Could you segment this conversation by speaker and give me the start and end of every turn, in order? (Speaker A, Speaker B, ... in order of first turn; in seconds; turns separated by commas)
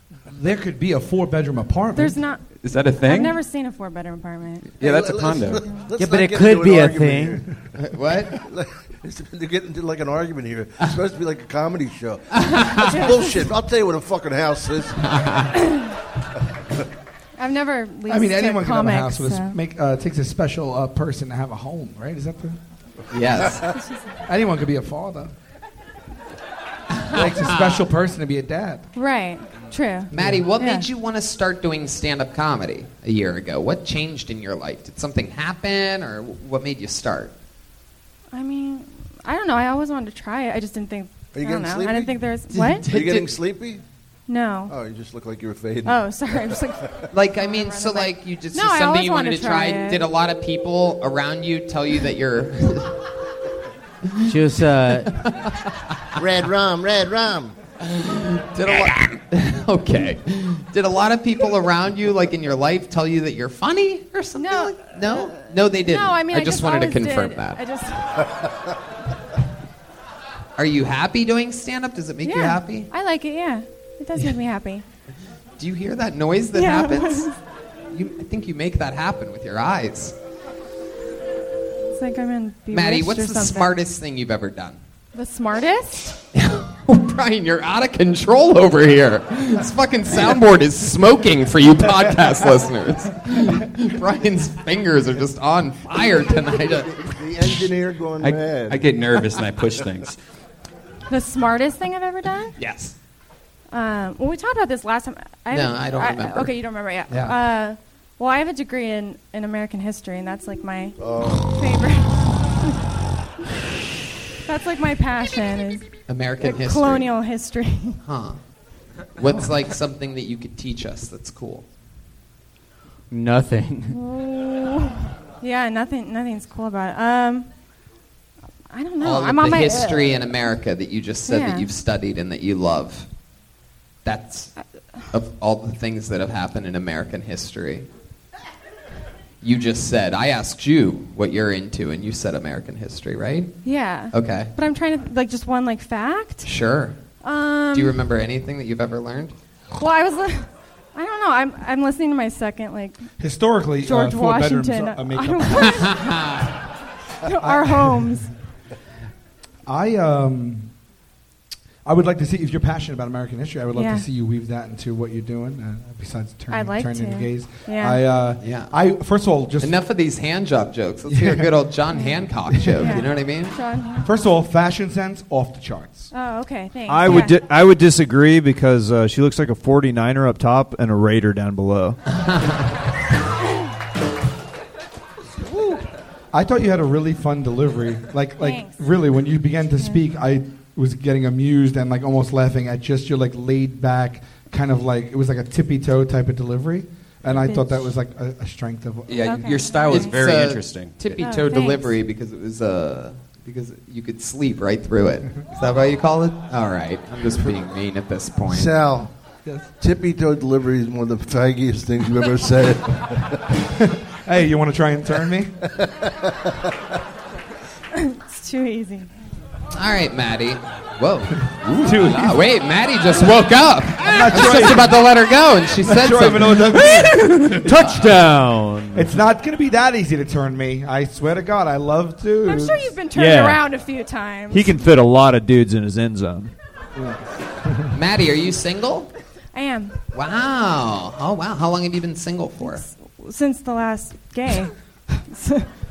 Speaker A: 0.3-2.2, Speaker B: 1.9-2.4, Speaker C: 2.6-3.4, Speaker B: 3.0-4.7, Speaker C: 4.8-5.7, Speaker D: 4.8-7.6, Speaker E: 6.0-7.4, Speaker F: 7.8-8.3, Speaker D: 8.3-15.0, Speaker F: 12.4-12.9, Speaker B: 12.8-13.3, Speaker F: 15.1-15.5, Speaker B: 17.4-19.6, Speaker A: 18.1-22.6, Speaker F: 23.1-23.7, Speaker B: 23.7-24.1, Speaker A: 24.2-25.3, Speaker F: 27.0-27.7, Speaker A: 27.1-28.9, Speaker B: 28.9-30.9, Speaker F: 30.1-37.3, Speaker A: 30.1-30.4, Speaker B: 38.3-42.9, Speaker D: 41.3-42.2, Speaker F: 42.5-43.3, Speaker D: 42.9-43.8, Speaker B: 44.3-44.7, Speaker D: 44.7-46.6, Speaker B: 45.8-46.8, Speaker F: 47.1-52.9, Speaker B: 47.4-50.0, Speaker E: 54.2-55.1, Speaker F: 55.1-55.5, Speaker D: 56.2-57.5, Speaker F: 57.8-67.6, Speaker B: 64.4-64.7, Speaker B: 65.8-68.2, Speaker F: 70.6-72.9, Speaker B: 72.2-74.8, Speaker F: 75.6-77.3, Speaker B: 76.5-77.3, Speaker F: 77.9-80.1, Speaker B: 81.9-83.8, Speaker F: 82.7-84.8, Speaker B: 85.1-86.2, Speaker F: 86.3-97.2, Speaker D: 97.1-98.8, Speaker C: 98.2-100.2, Speaker B: 101.1-102.5, Speaker F: 102.6-102.9, Speaker B: 103.7-112.8, Speaker F: 105.5-106.5, Speaker A: 107.1-107.4, Speaker D: 111.0-111.5, Speaker B: 114.5-115.9, Speaker F: 116.1-117.1, Speaker B: 116.4-118.0, Speaker F: 118.0-118.4, Speaker F: 119.2-121.7, Speaker E: 123.1-124.0, Speaker B: 123.9-127.5, Speaker B: 128.7-130.1, Speaker F: 129.0-133.1, Speaker B: 131.3-131.7, Speaker F: 134.0-134.5, Speaker F: 135.1-137.9, Speaker F: 139.4-143.5, Speaker B: 143.6-146.5, Speaker F: 144.1-144.5, Speaker F: 146.4-147.0, Speaker B: 147.2-148.0, Speaker F: 147.7-149.3, Speaker B: 149.7-153.1, Speaker A: 153.2-155.7, Speaker B: 153.8-156.1, Speaker F: 155.7-156.5, Speaker B: 157.2-158.3, Speaker A: 157.4-158.0, Speaker A: 159.7-160.7, Speaker A: 161.8-169.7, Speaker B: 163.7-164.1, Speaker B: 166.5-168.0, Speaker F: 168.4-168.7, Speaker F: 169.6-173.5, Speaker A: 171.1-171.5, Speaker B: 171.9-172.2, Speaker B: 172.8-174.1, Speaker A: 174.0-176.1, Speaker B: 176.1-177.4, Speaker G: 176.9-182.0, Speaker A: 186.3-199.3, Speaker B: 188.4-188.8, Speaker B: 197.2-197.8, Speaker C: 199.1-200.9, Speaker B: 199.2-200.1, Speaker F: 199.8-208.8, Speaker B: 201.2-201.9, Speaker D: 208.5-209.1, Speaker D: 209.8-213.4, Speaker A: 213.7-215.6, Speaker B: 217.9-219.1, Speaker F: 219.7-226.7, Speaker C: 221.7-222.0, Speaker A: 221.8-222.4, Speaker A: 224.0-224.9, Speaker A: 225.8-227.3, Speaker G: 226.7-229.1, Speaker A: 228.9-232.9, Speaker B: 232.4-234.8, Speaker G: 233.1-233.6, Speaker G: 234.5-236.5, Speaker A: 236.9-237.9, Speaker F: 237.9-239.1, Speaker B: 239.5-239.9, Speaker F: 240.1-242.8, Speaker B: 242.6-245.7